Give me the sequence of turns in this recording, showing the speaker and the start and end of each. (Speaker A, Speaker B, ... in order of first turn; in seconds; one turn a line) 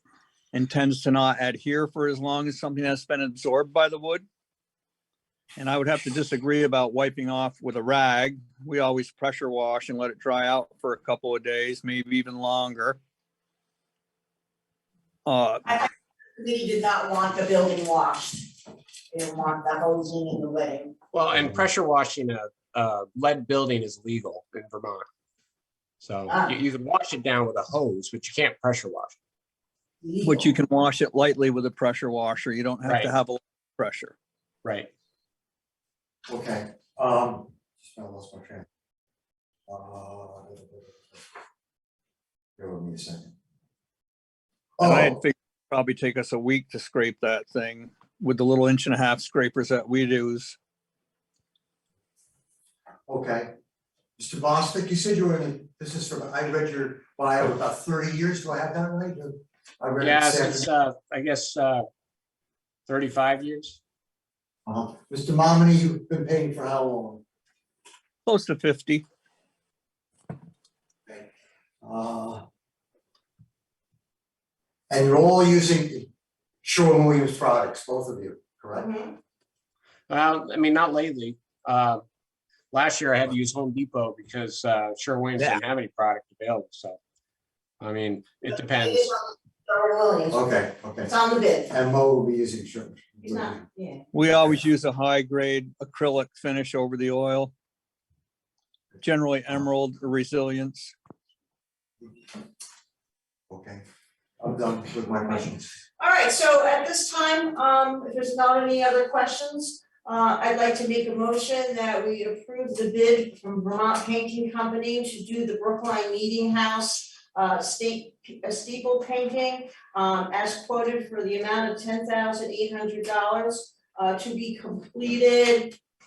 Speaker A: 0.5-4.3
Speaker A: 5.6-13.0
Speaker A: 15.3-15.7
Speaker B: 15.6-18.5
Speaker B: 19.1-20.9
Speaker C: 21.1-25.1
Speaker D: 21.3-21.6
Speaker C: 26.0-29.2
Speaker B: 26.3-26.6
Speaker B: 30.0-30.6
Speaker A: 30.2-34.1
Speaker C: 32.8-33.1
Speaker C: 34.6-34.9
Speaker D: 36.3-38.7
Speaker D: 39.7-41.2
Speaker D: 42.6-43.3
Speaker D: 44.8-45.2
Speaker A: 44.8-50.6
Speaker D: 53.1-53.5
Speaker D: 54.2-60.7
Speaker C: 60.0-61.9
Speaker C: 62.9-63.8
Speaker D: 64.7-67.2
Speaker A: 68.2-69.0
Speaker D: 71.8-72.4
Speaker D: 74.9-76.1
Speaker D: 76.6-78.9
Speaker B: 78.7-79.2
Speaker C: 80.1-82.0
Speaker C: 82.7-87.0
Speaker C: 87.8-89.1
Speaker B: 88.7-90.5
Speaker D: 90.3-91.1
Speaker B: 91.0-91.7
Speaker D: 91.7-93.6
Speaker B: 93.2-94.0
Speaker A: 94.1-97.5
Speaker A: 99.0-100.9
Speaker D: 103.5-103.8
Speaker D: 104.4-105.7
Speaker B: 106.0-125.8